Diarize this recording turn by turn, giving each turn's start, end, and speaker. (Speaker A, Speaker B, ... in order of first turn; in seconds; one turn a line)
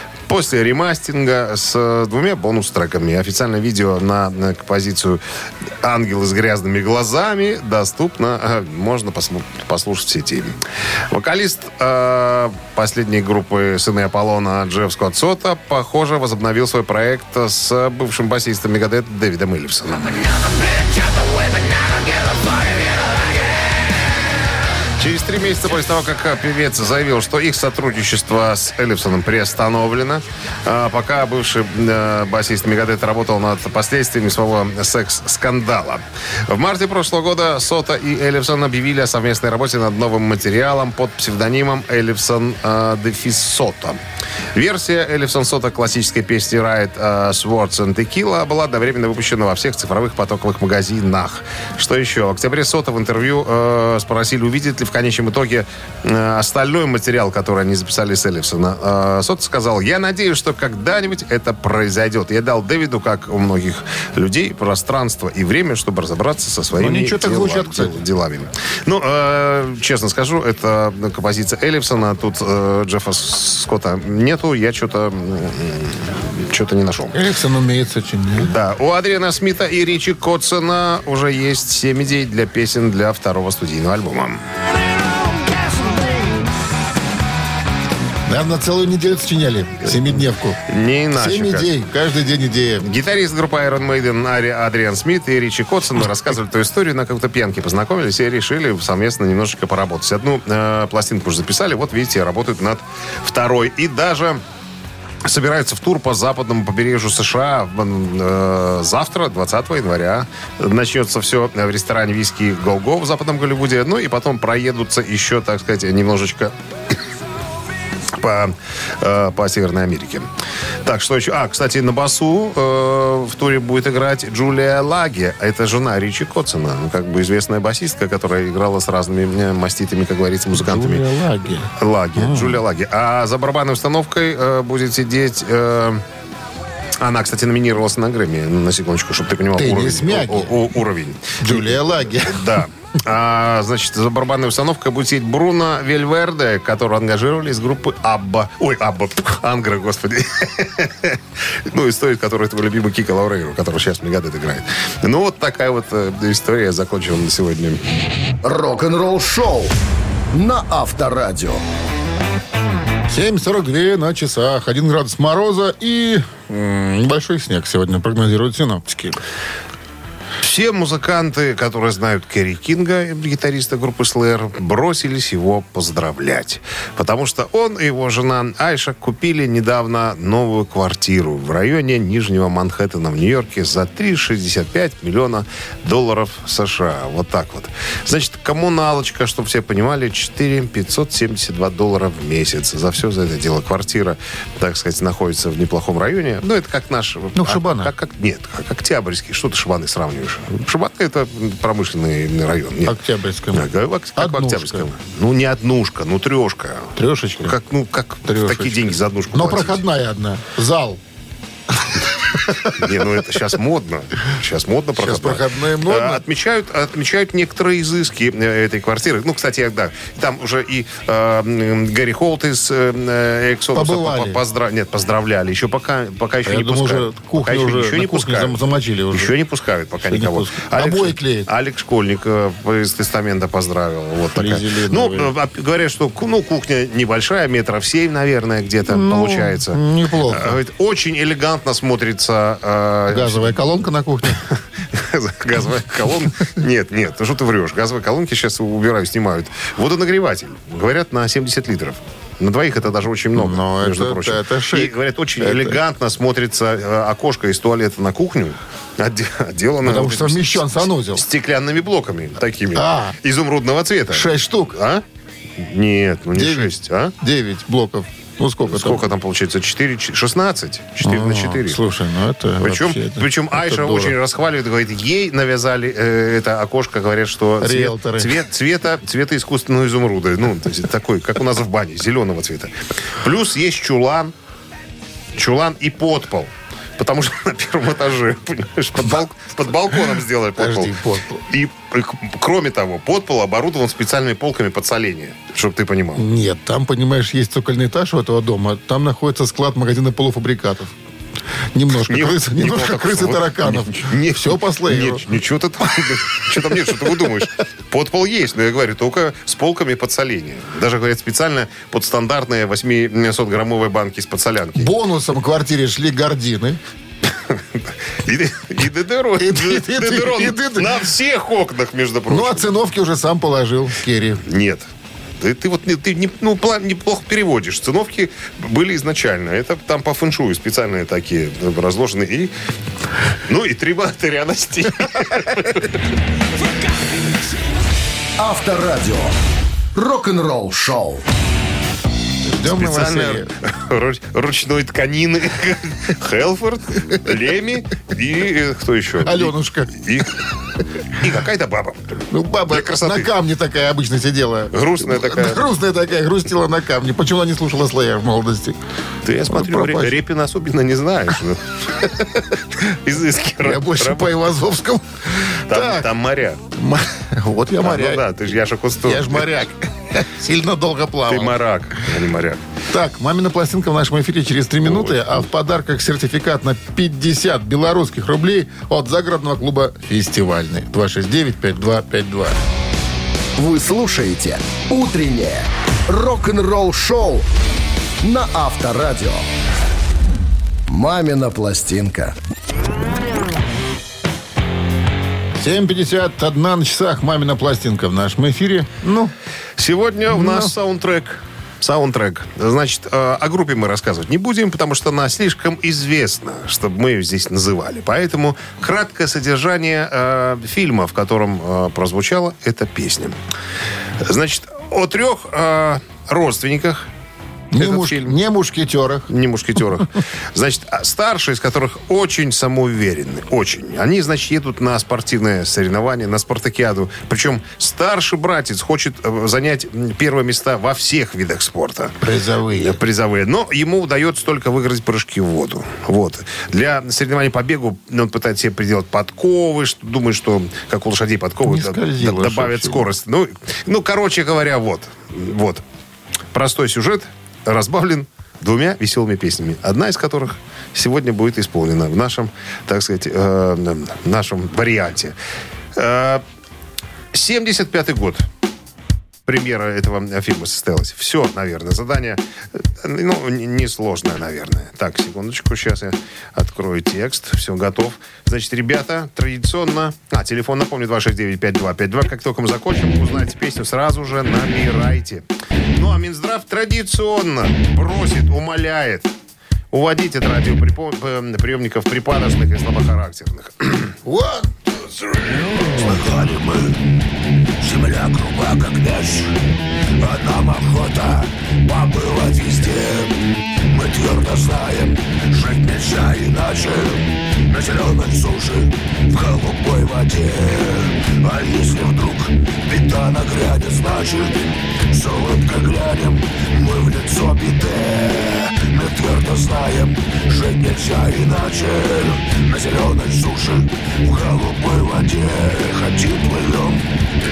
Speaker A: 0.3-5.2
Speaker A: 5.8-10.6
Speaker A: 11.1-20.6
Speaker A: 22.1-23.1
Speaker A: 25.0-44.0
Speaker A: 44.5-77.2
Speaker B: 66.8-68.0
Speaker B: 77.1-78.6
Speaker A: 78.4-84.4
Speaker B: 85.5-86.1
Speaker B: 88.3-90.6
Speaker A: 89.8-91.7
Speaker B: 91.1-92.9
Speaker A: 92.8-104.4
Speaker A: 105.2-116.5
Speaker A: 118.1-120.3
Speaker A: 120.8-131.1
Speaker B: 130.5-132.6
Speaker A: 131.8-136.0
Speaker A: 137.0-157.8
Speaker B: 139.6-140.6
Speaker B: 141.4-142.6
Speaker C: 158.4-159.8
Speaker C: 160.3-161.6
Speaker B: 163.1-169.2
Speaker A: 170.4-203.0
Speaker B: 197.3-197.9
Speaker B: 202.8-204.9
Speaker A: 203.5-209.8
Speaker B: 207.0-207.6
Speaker B: 208.2-211.0
Speaker B: 211.7-212.8
Speaker A: 212.6-228.6
Speaker B: 215.0-216.2
Speaker B: 223.7-224.4
Speaker B: 226.4-229.3
Speaker A: 229.1-243.6
Speaker B: 230.0-231.5
Speaker B: 234.3-235.3
Speaker B: 238.9-240.6
Speaker B: 243.1-244.4
Speaker A: 244.3-265.0
Speaker B: 253.4-255.8
Speaker B: 259.8-261.3
Speaker B: 262.7-263.2
Speaker B: 264.1-264.8
Speaker A: 265.6-267.1
Speaker B: 266.3-269.1
Speaker A: 268.7-271.8
Speaker B: 271.0-274.2
Speaker A: 272.6-284.3
Speaker B: 277.6-278.4
Speaker A: 285.4-290.9
Speaker B: 290.6-291.4
Speaker A: 291.5-296.2
Speaker B: 296.2-300.9
Speaker B: 301.7-305.3
Speaker A: 302.0-314.9
Speaker B: 314.8-316.8
Speaker A: 317.3-322.7
Speaker B: 319.4-321.0
Speaker B: 322.3-324.4
Speaker A: 324.4-324.9
Speaker A: 325.4-332.5
Speaker A: 333.5-336.0
Speaker C: 338.4-339.3
Speaker C: 339.9-341.2
Speaker B: 342.5-343.5
Speaker A: 342.6-350.4
Speaker B: 349.2-350.0
Speaker A: 351.1-352.1
Speaker B: 352.3-358.8
Speaker A: 352.7-353.3
Speaker A: 354.7-355.7
Speaker A: 359.2-364.4
Speaker B: 359.5-360.2
Speaker B: 363.6-366.1
Speaker A: 365.7-366.6
Speaker B: 366.7-368.2
Speaker A: 367.8-369.5
Speaker B: 369.0-371.6
Speaker A: 371.3-372.6
Speaker B: 372.9-382.6
Speaker A: 374.9-375.4
Speaker C: 383.6-387.5
Speaker C: 388.2-389.5
Speaker C: 390.9-392.4
Speaker B: 395.6-399.3
Speaker A: 399.8-413.4
Speaker B: 400.3-400.7
Speaker A: 414.2-417.1
Speaker B: 417.7-419.3
Speaker A: 417.8-418.4
Speaker A: 419.3-432.2
Speaker B: 432.2-433.0
Speaker A: 432.7-445.8
Speaker B: 441.6-443.1
Speaker A: 446.5-455.4
Speaker A: 455.9-456.4
Speaker A: 457.3-458.5
Speaker A: 459.5-479.3
Speaker A: 479.9-484.2
Speaker B: 484.2-484.7
Speaker D: 486.2-486.9
Speaker D: 487.8-489.5
Speaker D: 490.2-493.3
Speaker A: 490.8-491.1
Speaker D: 493.9-504.5
Speaker D: 505.1-517.0